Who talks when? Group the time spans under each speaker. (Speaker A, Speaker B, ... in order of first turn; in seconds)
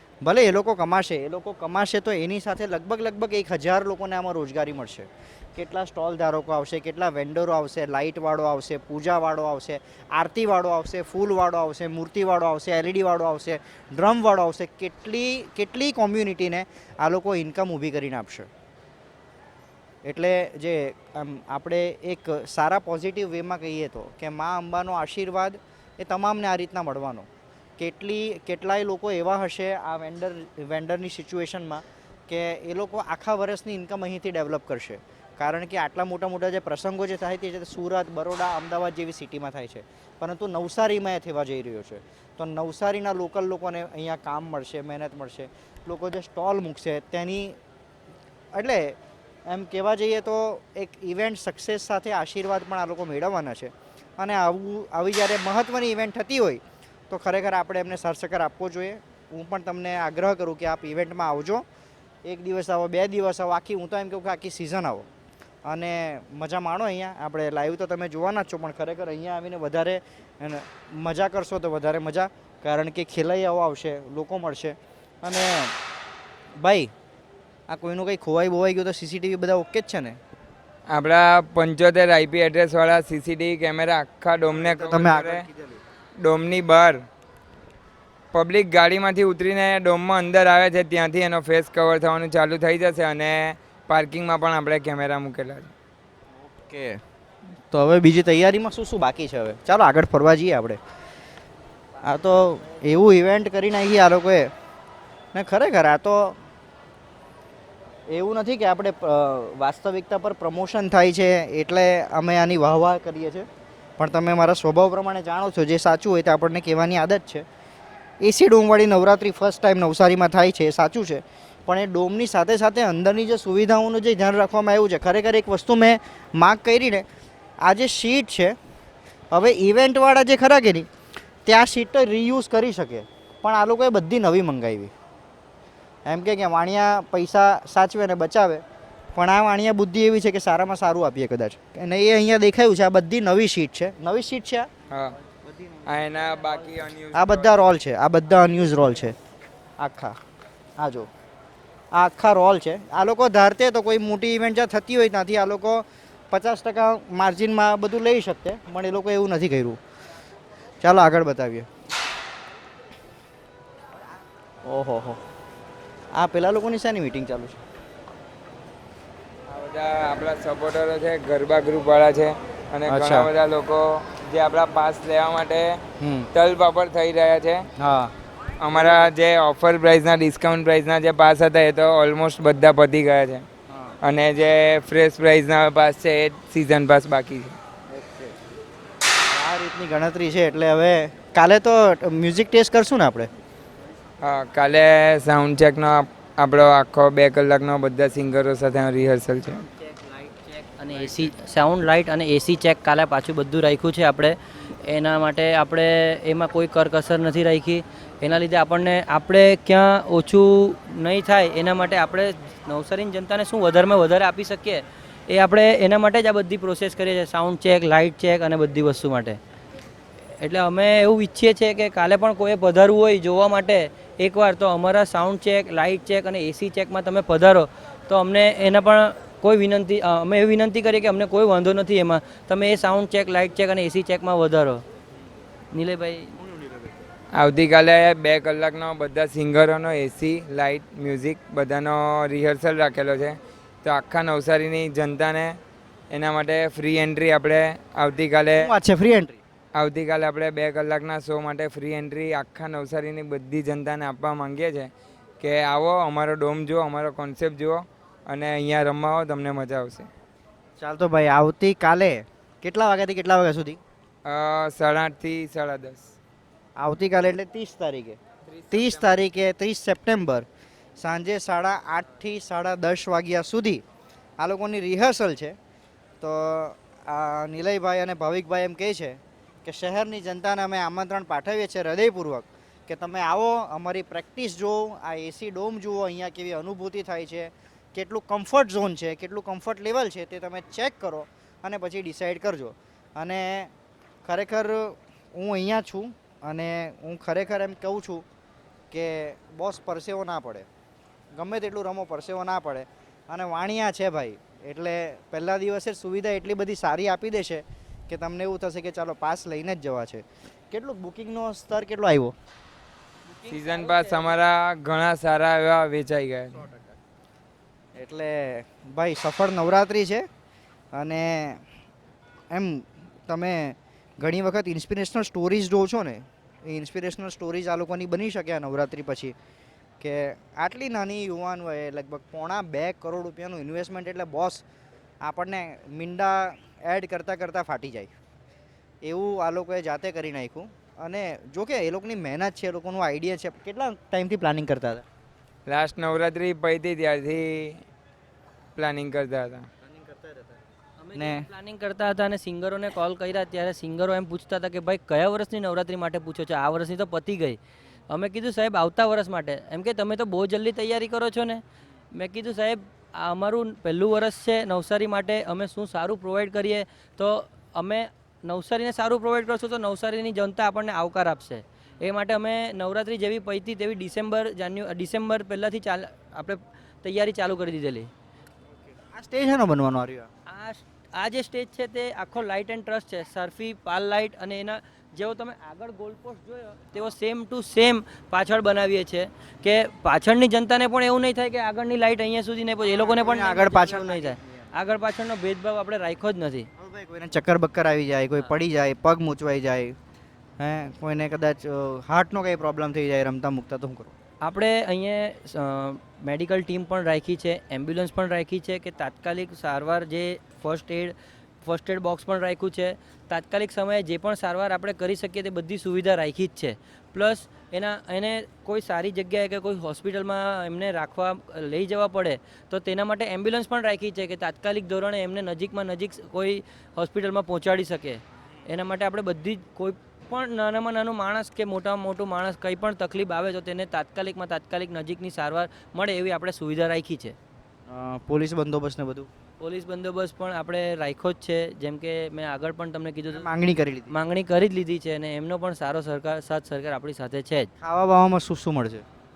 Speaker A: 0.2-18.5, 20.1-47.6, 48.5-61.6, 62.2-65.1, 65.7-75.7, 76.6-76.9, 77.7-80.2, 84.5-85.8, 96.4-97.0, 97.7-100.8, 102.0-104.5, 105.3-106.4, 108.1-113.5, 114.0-117.5, 118.2-127.0, 127.6-128.6, 129.3-130.9, 131.5-134.9, 136.1-138.6, 139.1-144.7, 145.4-149.2, 149.8-150.2, 150.8-151.1, 151.9-159.8, 160.8-161.7, 164.7-165.2, 166.1-167.6, 172.9-173.3, 176.0-176.3, 177.8-178.1, 178.8-179.1, 183.7-184.0, 187.9-188.4, 189.3-193.3, 236.4-236.9, 248.6-249.4, 260.8-263.8, 266.8-268.2, 268.7-270.5, 271.0-273.8, 274.4-275.6, 276.2-293.7, 294.2-298.2, 298.9-300.7, 301.4-312.3, 317.9-320.3, 320.9-321.6, 322.5-329.4, 330.0-334.6, 335.2-338.1, 339.0-345.0, 349.9-350.6, 351.1-351.4, 378.9-380.3, 392.8-394.7, 396.8-400.0, 400.6-404.1, 437.9-439.3, 443.3-444.1, 447.8-449.1
Speaker B: 80.9-85.5, 86.2-87.1, 88.3-95.7, 144.9-145.2, 145.9-147.5, 169.5-175.8, 176.3-177.7, 178.6-183.5, 184.0-187.6, 194.2-199.6, 237.3-245.6, 246.1-248.7, 249.8-260.1, 264.2-266.1, 268.5-269.2, 313.5-316.6, 345.7-347.8, 348.8-349.7
Speaker C: 200.8-219.4, 220.4-234.8, 235.7-236.3, 351.0-357.6, 358.1-361.6, 362.1-378.1, 380.5-396.7, 404.4-411.1, 411.6-437.4, 439.6-443.5, 444.1-447.7